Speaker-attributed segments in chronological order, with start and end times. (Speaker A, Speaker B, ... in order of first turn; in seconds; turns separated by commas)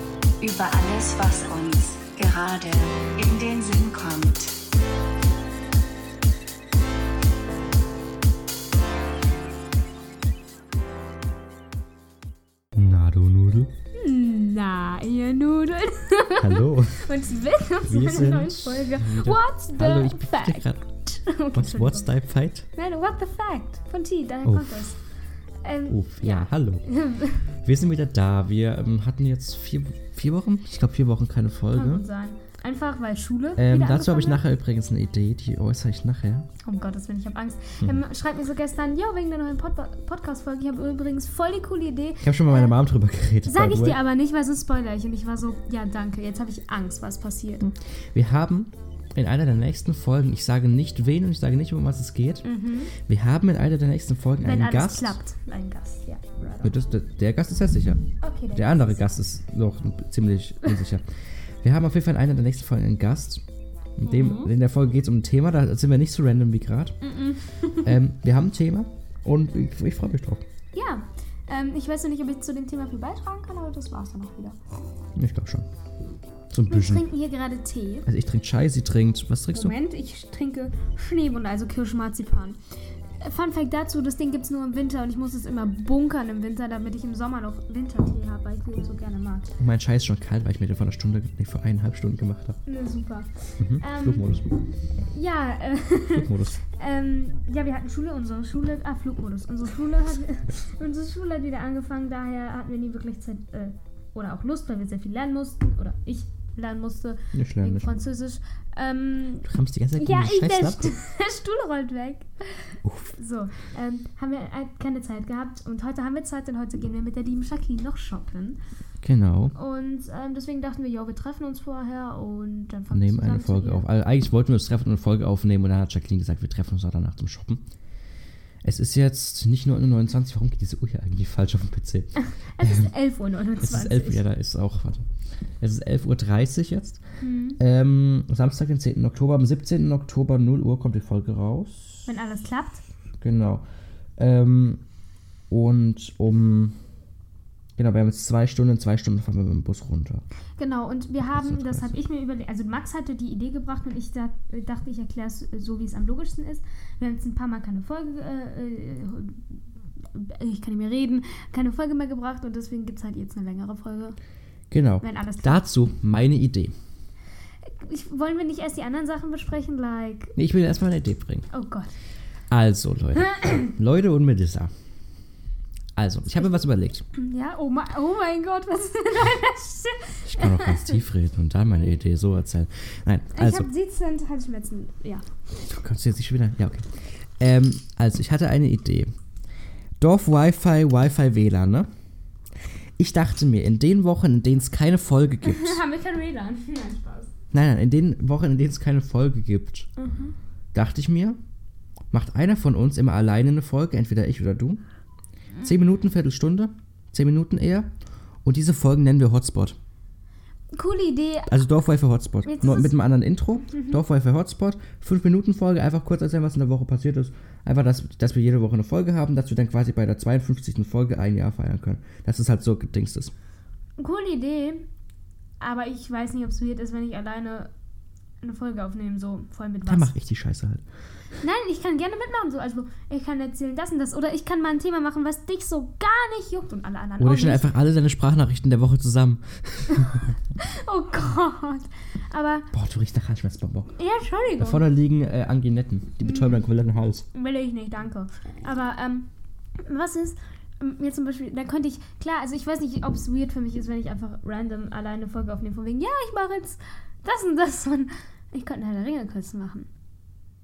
Speaker A: 0.4-4.5, Speaker B: 12.7-13.7, Speaker C: 13.9-22.1, Speaker B: 16.4-17.1, Speaker B: 17.8-20.9, Speaker B: 21.5-22.7, Speaker C: 22.8-25.0, Speaker B: 24.4-24.8, Speaker C: 25.6-27.5, Speaker B: 25.9-26.8, Speaker B: 27.6-32.0, Speaker C: 31.7-34.4, Speaker B: 33.5-36.5, Speaker C: 36.6-42.7, Speaker B: 42.2-44.0, Speaker C: 43.5-47.7, Speaker B: 47.6-55.2, Speaker C: 52.4-52.9, Speaker C: 54.4-56.7, Speaker B: 56.6-58.0, Speaker C: 58.2-59.0, Speaker B: 58.5-61.0, Speaker B: 61.6-63.4, Speaker B: 64.0-67.0, Speaker C: 64.0-64.5, Speaker C: 67.0-68.0, Speaker B: 67.8-70.5, Speaker C: 70.7-74.6, Speaker B: 75.1-75.7, Speaker B: 76.5-77.1, Speaker C: 76.7-78.1, Speaker B: 78.0-79.7, Speaker C: 79.5-82.6, Speaker C: 83.2-89.5, Speaker B: 89.6-92.6, Speaker C: 92.7-94.3, Speaker B: 93.6-94.5, Speaker C: 95.1-118.6, Speaker B: 96.1-96.6, Speaker B: 107.3-108.0, Speaker B: 109.4-111.0, Speaker B: 112.8-113.1, Speaker B: 119.0-119.5, Speaker C: 119.5-123.8, Speaker B: 122.9-127.6, Speaker B: 128.6-132.9, Speaker C: 132.2-134.2, Speaker B: 133.6-135.0, Speaker B: 135.6-137.0, Speaker C: 137.2-137.6, Speaker B: 137.6-142.1, Speaker C: 142.1-142.8, Speaker B: 143.2-143.6, Speaker B: 144.2-144.8, Speaker B: 145.5-146.8, Speaker B: 147.8-150.2, Speaker C: 150.6-159.4, Speaker B: 151.2-152.0, Speaker C: 160.1-164.2, Speaker B: 164.7-166.7, Speaker C: 165.0-165.6, Speaker C: 167.7-170.3, Speaker B: 170.3-171.5, Speaker C: 171.5-171.9, Speaker B: 172.5-174.7, Speaker B: 175.9-177.0, Speaker C: 177.1-181.0, Speaker B: 180.2-183.7, Speaker C: 183.3-185.2, Speaker B: 185.6-189.1, Speaker B: 190.0-191.9, Speaker B: 193.0-195.8, Speaker C: 195.4-197.3, Speaker B: 197.5-199.9, Speaker C: 200.0-200.3, Speaker B: 200.7-201.4, Speaker B: 202.1-204.8, Speaker B: 205.6-207.9, Speaker B: 208.4-209.8, Speaker C: 210.7-211.6, Speaker B: 211.5-223.3, Speaker C: 212.4-212.9, Speaker C: 213.7-214.0, Speaker C: 224.0-224.8, Speaker C: 225.6-227.7, Speaker C: 228.4-230.1, Speaker B: 229.9-230.8, Speaker C: 231.4-237.7, Speaker B: 237.2-240.3, Speaker C: 240.6-242.7, Speaker B: 242.7-243.9, Speaker C: 244.0-244.8, Speaker B: 244.6-247.3, Speaker C: 246.2-246.6, Speaker C: 247.3-249.3, Speaker C: 249.8-259.9